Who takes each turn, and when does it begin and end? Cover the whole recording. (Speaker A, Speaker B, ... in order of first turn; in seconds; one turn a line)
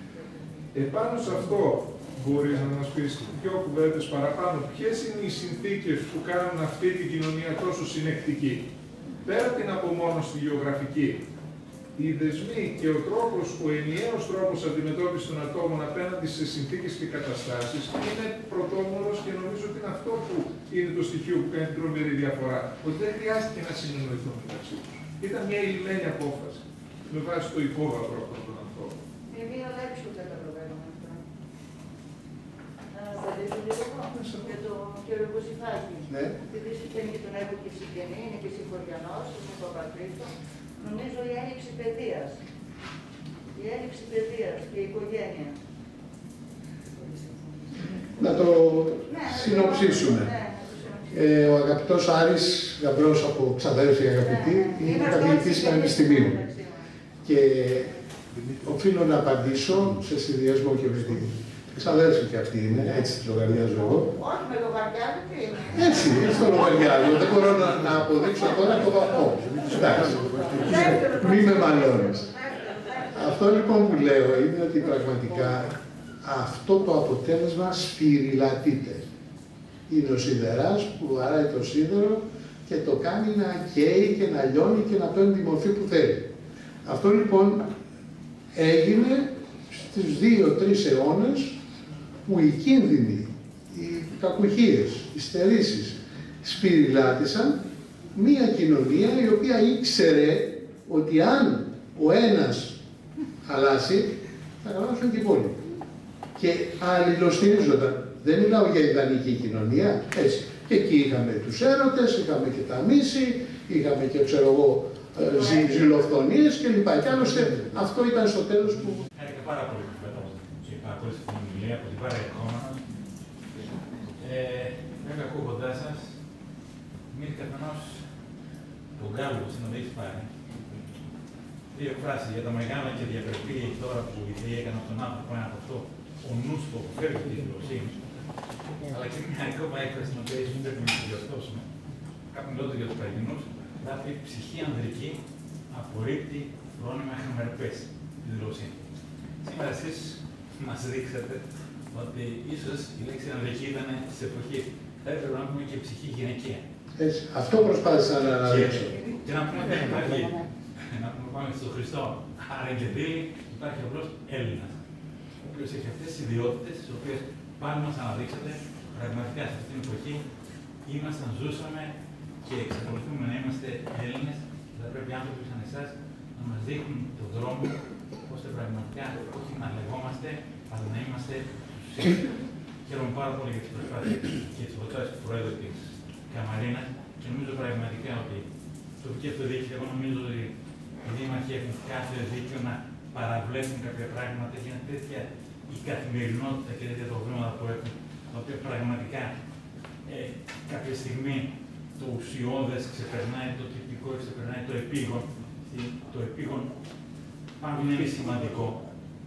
Speaker A: 0.7-8.7
Speaker A: 9.2-11.2
Speaker A: 11.9-29.0
Speaker B: 29.3-31.2
Speaker B: 32.9-42.3
Speaker A: 34.1-34.5
Speaker C: 36.1-36.4
Speaker B: 43.5-45.5
Speaker C: 48.1-50.3
Speaker B: 49.1-51.1
Speaker C: 51.1-56.4
Speaker B: 54.3-56.8
Speaker C: 57.2-57.9
Speaker C: 58.6-64.1
Speaker B: 64.2-66.0
Speaker C: 65.7-72.3
Speaker B: 70.6-73.1
Speaker C: 73.1-79.0
Speaker C: 79.9-86.3
Speaker C: 86.8-87.7
Speaker C: 88.5-91.5
Speaker C: 92.2-97.6
Speaker C: 98.2-102.8
Speaker C: 103.4-105.6
Speaker C: 106.3-119.1
Speaker D: 119.2-122.8
Speaker D: 124.2-126.2
Speaker D: 127.1-128.1
Speaker D: 128.9-130.3
Speaker D: 131.7-138.0
Speaker D: 138.9-141.7
Speaker D: 142.3-148.8
Speaker D: 149.4-156.6
Speaker C: 157.0-158.9
Speaker D: 158.3-164.8
Speaker D: 165.4-170.2
Speaker D: 170.8-188.5
Speaker D: 189.0-199.3
Speaker D: 200.0-206.7
Speaker D: 207.6-208.8